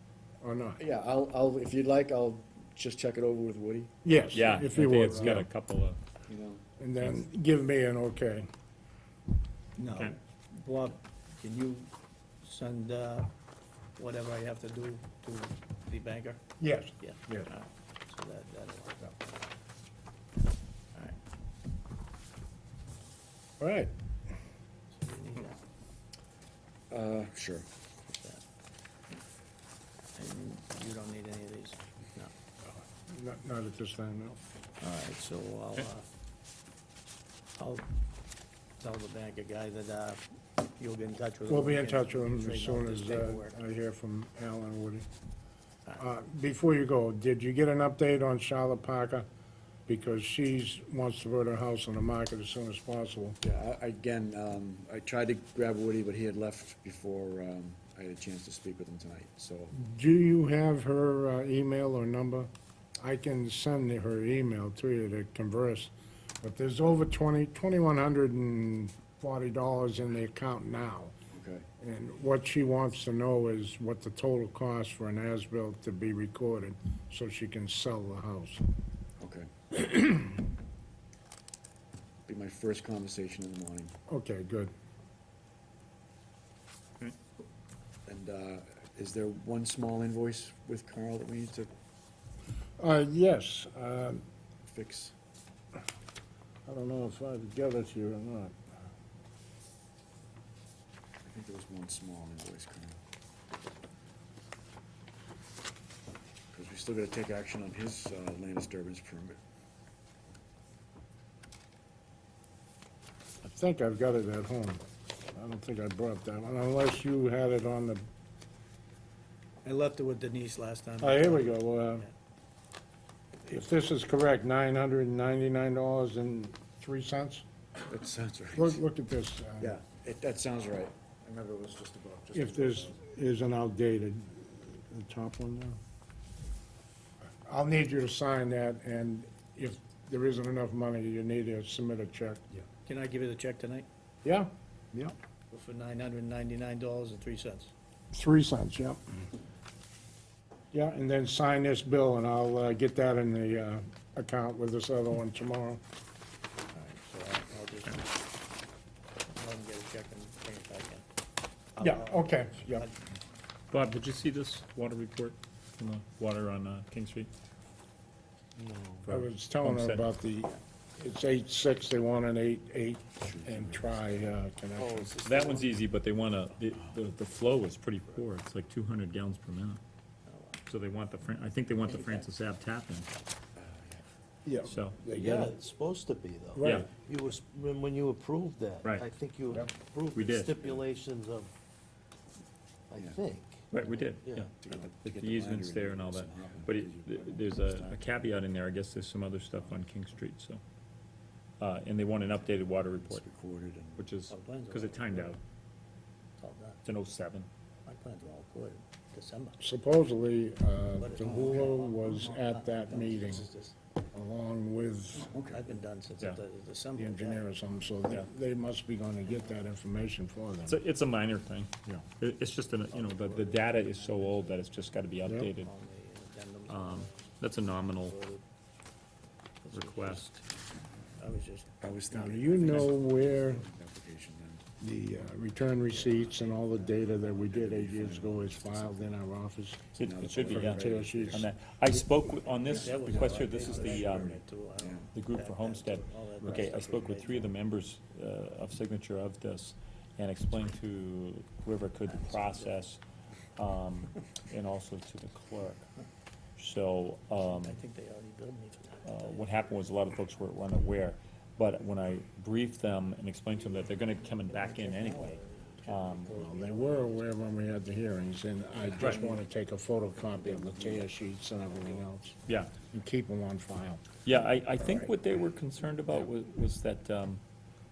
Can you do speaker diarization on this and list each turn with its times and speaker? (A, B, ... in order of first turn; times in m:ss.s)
0:00.4-0:00.8 A
0:00.8-0:04.2 B
0:04.0-0:05.5 A
0:04.3-0:06.0 C
0:06.3-0:06.6 B
0:06.8-0:08.5 A
0:09.8-0:11.9 D
0:12.4-0:13.3 D
0:14.0-0:16.4 D
0:16.6-0:17.5 A
0:17.0-0:19.2 D
0:20.9-0:21.2 D
0:23.6-0:23.9 A
0:24.9-0:25.6 D
0:26.9-0:27.6 B
0:28.0-0:28.4 D
0:30.2-0:32.3 D
0:33.0-0:34.4 A
0:34.8-0:36.0 D
0:37.6-0:37.9 D
0:38.8-0:40.2 D
0:40.8-0:43.6 D
0:41.5-0:45.0 A
0:46.0-0:49.3 A
0:49.9-0:53.4 A
0:53.4-0:59.7 B
0:59.7-1:11.1 A
1:11.3-1:11.7 B
1:11.8-1:18.6 A
1:19.2-1:19.5 B
1:19.7-1:20.3 A
1:22.2-1:24.0 B
1:24.1-1:24.7 A
1:28.0-1:31.7 B
1:32.8-1:34.2 A
1:34.6-1:35.1 B
1:36.6-1:38.6 A
1:41.2-1:43.0 B
1:46.5-1:49.4 B
1:53.4-1:54.8 A
1:55.3-1:58.0 A
1:59.6-2:02.0 D
2:01.0-2:02.0 A
2:03.4-2:07.4 A
2:07.8-2:08.8 B
2:08.6-2:09.8 A
2:09.6-2:13.0 B
2:12.3-2:15.8 A
2:17.4-2:22.5 A
2:22.8-2:23.9 D
2:24.2-2:25.2 A
2:25.5-2:27.7 D
2:28.1-2:29.0 A
2:30.7-2:35.8 A
2:36.7-2:38.2 D
2:39.3-2:41.0 D
2:41.7-2:42.9 D
2:41.8-2:42.9 A
2:43.7-2:47.3 C
2:48.6-2:49.1 E
2:49.0-2:50.1 C
2:49.1-2:55.2 A
2:53.2-2:54.2 B
2:54.8-2:55.8 E
2:55.2-2:59.8 C
2:56.7-2:57.0 B
3:00.2-3:00.6 D
3:00.6-3:03.1 C
3:02.0-3:02.2 D
3:03.6-3:04.0 B
3:04.4-3:05.5 A
3:04.6-3:05.0 C
3:05.1-3:11.5 E
3:05.2-3:05.5 D
3:06.5-3:06.9 A
3:06.6-3:06.9 C
3:10.1-3:10.6 C
3:12.9-3:14.5 E
3:13.7-3:20.6 C
3:14.0-3:18.0 B
3:21.6-3:23.2 C
3:23.0-3:24.0 B
3:24.0-3:25.4 C
3:24.3-3:25.4 D
3:26.4-3:26.8 D
3:26.8-3:27.5 C
3:27.8-3:29.6 D
3:29.6-3:33.5 A
3:31.0-3:33.7 D
3:31.2-3:31.6 B
3:34.1-3:35.3 A
3:35.1-3:35.7 B
3:35.5-3:37.5 D
3:37.0-3:40.8 A
3:40.7-3:45.7 C
3:42.9-3:44.7 D
3:45.2-3:45.5 A
3:45.5-3:47.4 D
3:46.7-3:48.2 C
3:47.9-3:48.4 D
3:49.6-3:50.4 D
3:49.7-3:50.2 C
3:50.5-3:51.2 B
3:51.2-3:53.4 D
3:51.8-3:54.6 B
3:52.1-3:53.6 A
3:54.8-3:59.8 A
3:55.9-3:57.3 D
3:57.2-3:59.1 B
3:59.9-4:01.5 B
4:00.0-4:04.4 C
4:00.4-4:01.5 A
4:02.6-4:07.6 D
4:02.6-4:05.1 B
4:05.1-4:13.0 C
4:12.0-4:12.9 D
4:13.6-4:15.9 C
4:16.6-4:17.8 C
4:17.4-4:19.5 D
4:19.0-4:26.3 C
4:24.2-4:27.8 D
4:26.3-4:34.2 A
4:28.8-4:29.2 D
4:29.0-4:29.4 C
4:30.4-4:31.0 B
4:32.5-4:32.7 C
4:34.2-4:37.4 C
4:34.8-4:35.1 A